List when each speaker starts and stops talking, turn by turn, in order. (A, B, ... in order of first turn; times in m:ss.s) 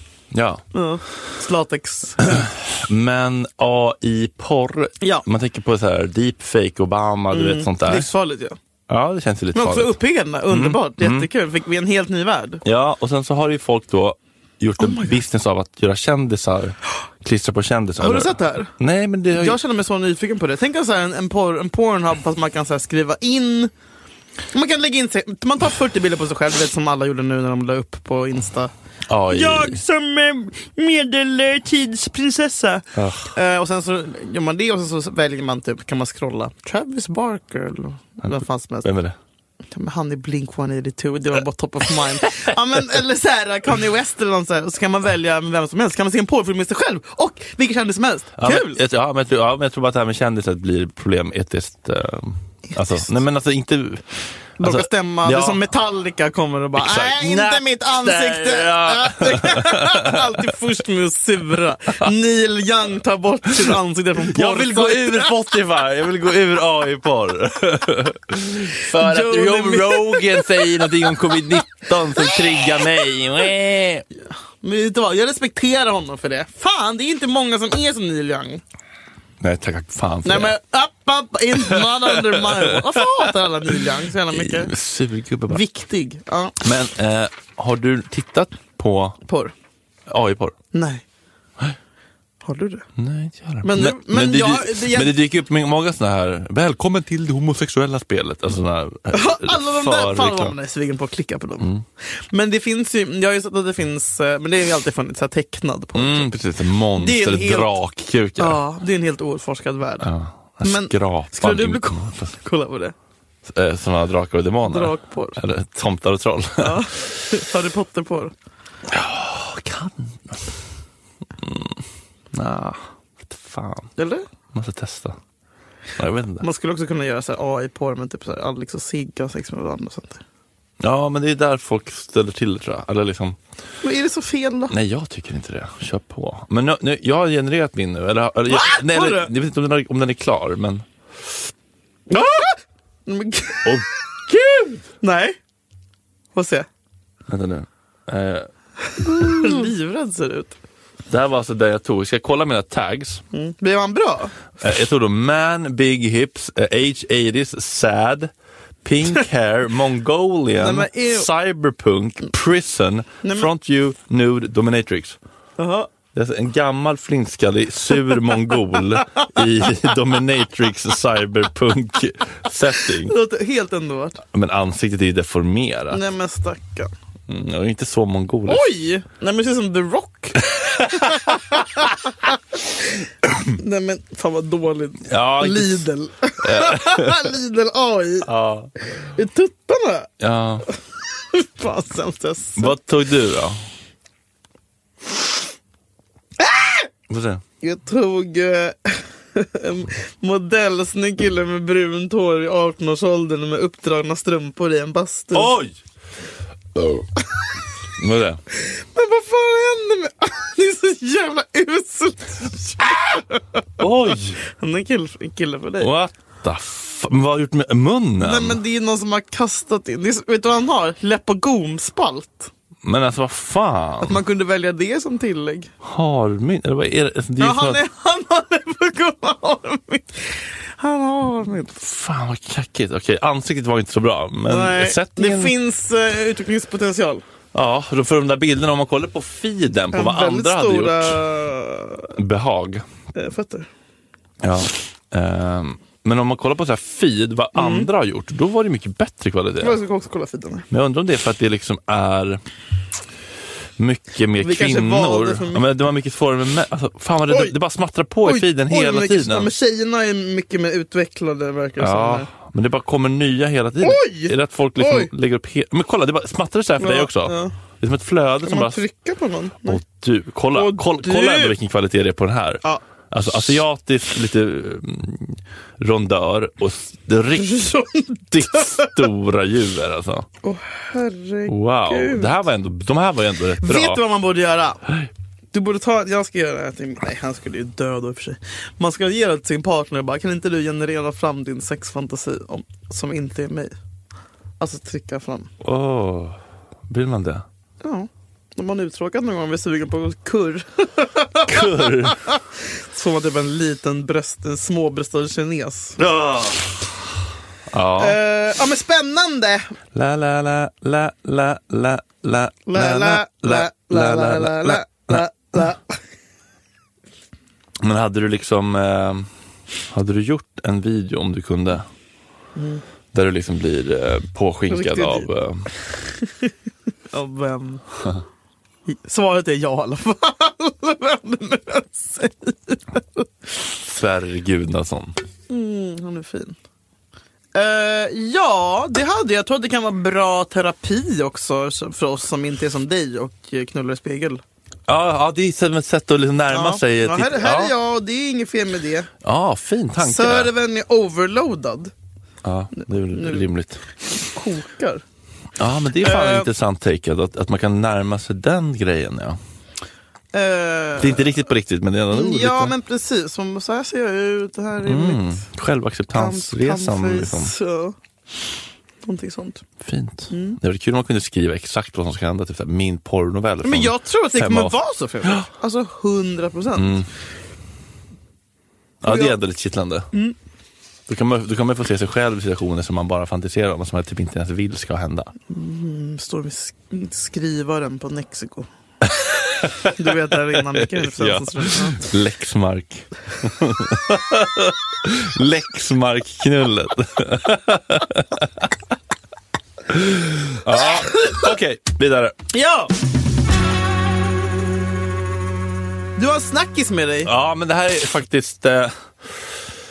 0:00.3-0:00.6 A
0:00.7-0:02.4 B
0:02.2-0:08.1 A
0:07.3-0:08.6 B
0:08.9-0:10.0 A
0:09.6-0:12.6 B
0:10.5-0:11.3 A
0:12.6-0:19.6 A
0:14.8-0:15.2 B
0:18.0-0:18.7 B
0:19.3-0:23.7 B
0:24.5-0:28.7 B
0:29.1-0:29.8 A
0:29.3-0:38.9 B
0:33.0-0:33.3 A
0:38.2-0:39.2 A
0:39.7-0:48.8 B
0:48.4-0:54.1 A
0:52.7-0:53.1 B
0:54.6-1:05.4 B
0:54.6-0:55.6 A
0:56.8-1:00.2 A
1:03.6-1:14.0 A
1:08.8-1:13.1 B
1:14.6-1:18.6 B
1:19.4-1:20.6 A
1:20.2-1:24.7 B
1:21.7-1:22.0 A
1:24.3-1:25.6 A
1:25.5-1:26.6 B
1:26.6-1:29.2 A
1:29.3-1:29.5 B
1:30.1-1:30.6 A
1:30.7-1:31.0 B
1:32.4-1:32.9 B
1:33.0-1:40.6 A
1:33.6-1:35.1 B
1:39.1-1:41.7 B
1:42.3-1:46.4 B
1:46.0-1:48.6 A
1:47.0-1:47.8 B
1:48.4-1:50.1 B
1:50.0-1:52.4 A
1:50.6-1:53.0 B
1:53.5-1:56.9 A
1:54.7-1:55.4 B
1:56.6-1:58.3 B
1:58.9-2:00.5 A
2:01.4-2:01.8 A
2:02.3-2:03.9 A
2:04.0-2:04.2 B
2:04.5-2:05.2 A
2:06.0-2:06.4 A
2:06.4-2:10.2 B
2:10.8-2:13.4 A
2:13.8-2:14.8 B
2:14.7-2:20.8 A
2:18.5-2:19.3 B
2:22.1-2:23.8 B
2:23.6-2:24.8 A
2:25.0-2:25.4 B
2:26.3-2:26.7 B
2:27.3-2:28.5 A
2:29.0-2:30.6 B
2:29.0-2:29.7 A
2:31.1-2:33.2 A
2:33.3-2:34.4 B
2:34.6-2:38.3 A
2:38.8-2:45.2 A
2:40.6-2:41.3 B
2:43.2-2:43.5 B
2:45.6-2:45.9 B
2:46.1-2:53.2 A
2:53.0-2:54.2 B
2:54.3-2:56.0 A
2:55.9-2:56.9 B
2:57.3-2:58.7 A
2:58.5-3:02.0 B
3:00.7-3:01.6 A
3:03.5-3:08.3 B
3:05.1-3:05.9 A
3:06.4-3:07.3 A
3:08.2-3:08.7 A
3:09.0-3:10.1 B
3:10.2-3:10.7 A
3:11.3-3:12.8 B
3:12.6-3:13.6 A
3:16.4-3:16.9 B
3:17.1-3:17.4 A
3:17.6-3:25.5 B
3:25.3-3:25.8 A
3:26.8-3:27.1 A
3:28.0-3:28.4 A
3:28.5-3:33.6 B
3:33.8-3:34.4 A
3:34.5-3:35.9 B
3:35.8-3:38.6 A
3:38.2-3:42.5 B
3:42.8-3:44.2 A
3:44.0-3:45.7 B
3:45.8-3:47.8 A
3:47.4-3:51.8 B
3:51.8-3:55.5 A
3:54.5-3:57.2 B
3:57.5-4:01.2 A
3:59.9-4:02.1 B
4:02.2-4:02.8 A
4:03.2-4:03.7 B
4:04.4-4:09.8 A
4:07.6-4:07.9 B
4:09.6-4:10.7 B
4:10.7-4:12.4 A
4:13.8-4:19.5 A
4:14.4-4:15.6 B
4:17.3-4:17.5 B
4:18.2-4:22.3 B
4:21.8-4:28.8 A
4:23.8-4:25.1 B
4:26.8-4:27.5 B
4:28.4-4:29.8 B
4:29.6-4:37.7 A
4:30.5-4:31.5 B
4:37.4-4:39.0 B
4:38.3-4:40.3 A
4:40.4-4:42.4 B
4:41.5-4:44.0 A
4:43.6-4:44.8 B
4:45.5-4:53.8 B
4:54.6-4:55.5 B
4:55.6-4:56.4 A
4:56.9-4:57.4 A
4:57.8-5:02.4 B
5:01.5-5:02.4 A
5:02.9-5:06.0 B
5:06.0-5:06.7 A
5:07.7-5:08.2 A
5:08.0-5:09.7 B
5:09.9-5:15.4 A
5:12.7-5:15.8 B
5:17.8-5:19.3 A
5:19.9-5:21.9 A
5:22.6-5:22.8 B
5:23.1-5:25.7 A
5:24.7-5:25.3 B
5:27.1-5:27.8 B
5:28.9-5:33.3 B
5:33.8-5:35.2 A
5:35.5-5:36.6 B
5:37.6-5:44.4 B
5:44.9-5:47.7 A
5:46.5-5:49.1 B
5:49.2-5:50.5 A
5:50.0-5:51.9 B
5:52.4-5:53.8 A
5:53.1-5:53.5 B
5:54.2-5:55.0 B
5:55.6-5:59.4 A
5:56.0-5:56.5 B
6:00.3-6:01.4 B
6:01.0-6:02.7 A
6:02.1-6:05.4 B
6:04.8-6:07.5 A
6:06.1-6:08.0 B
6:09.0-6:09.6 B
6:09.8-6:15.5 A
6:10.3-6:10.6 B
6:13.6-6:17.0 B
6:16.8-6:17.1 A
6:19.0-6:20.1 A
6:19.1-6:19.4 B
6:21.1-6:25.3 A
6:25.5-6:28.7 B
6:29.2-6:30.0 A
6:29.8-6:32.1 B
6:30.5-6:38.7 A
6:39.9-6:42.4 A
6:40.7-6:41.5 B
6:42.5-6:42.9 B
6:46.2-6:47.3 B
6:47.2-6:49.6 A